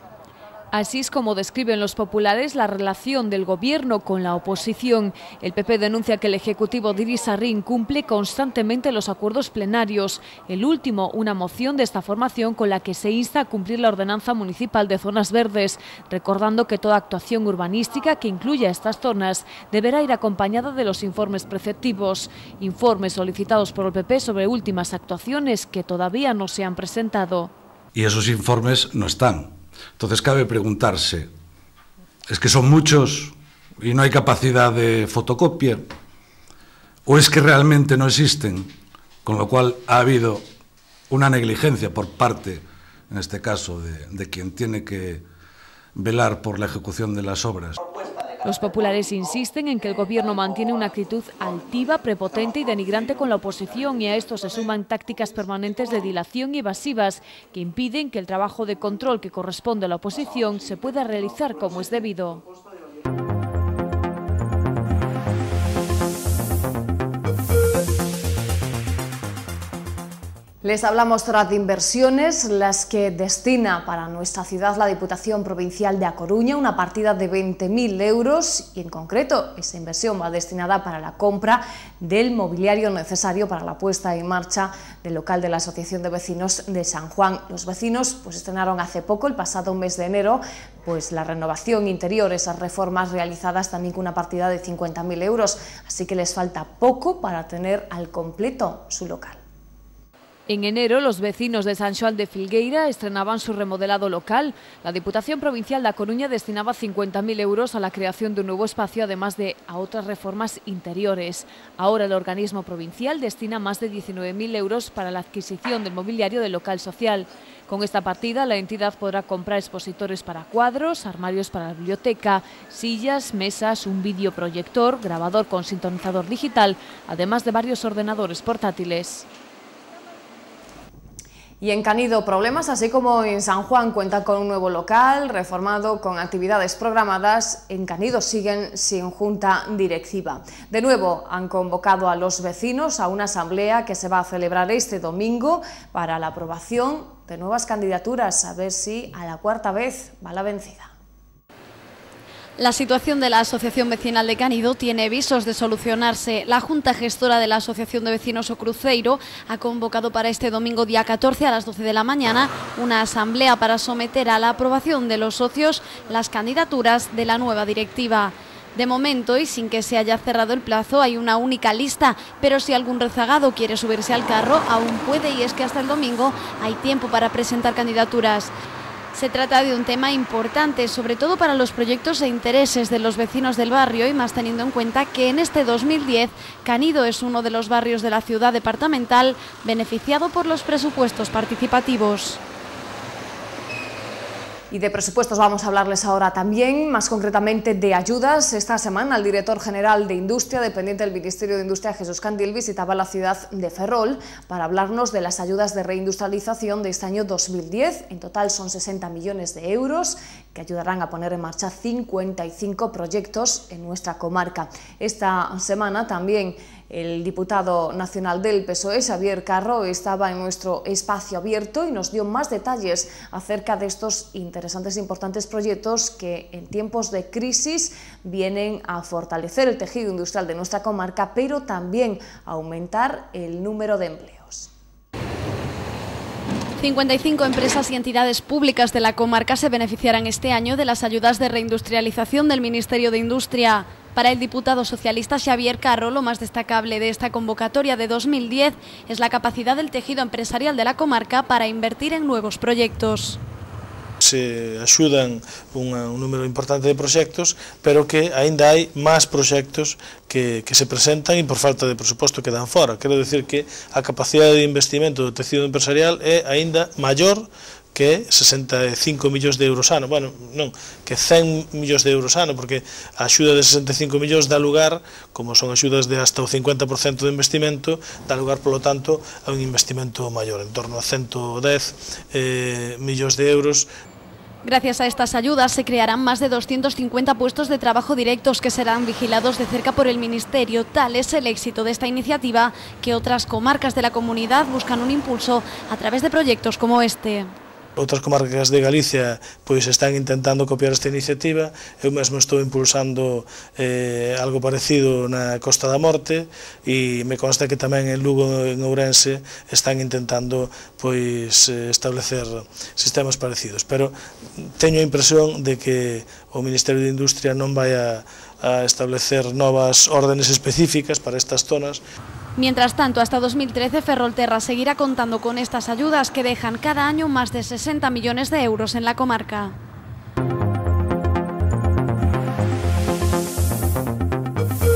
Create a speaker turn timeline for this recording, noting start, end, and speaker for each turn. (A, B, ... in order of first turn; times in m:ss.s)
0:00.7-0:27.5 A
0:27.9-0:31.3 B
0:32.3-0:35.9 B
0:37.1-0:38.7 B
0:39.2-0:40.4 B
0:41.1-0:45.3 B
0:46.0-0:47.8 B
0:48.4-1:02.4 A
1:10.6-1:39.4 C
1:40.5-2:09.3 A
2:11.6-2:30.9 C
2:32.6-2:58.5 D
2:59.1-3:12.4 D
3:14.7-3:54.7 C
3:56.8-4:13.4 D
4:14.2-4:43.9 E
4:44.6-4:57.5 D
4:58.0-5:22.0 E
5:22.6-5:29.8 D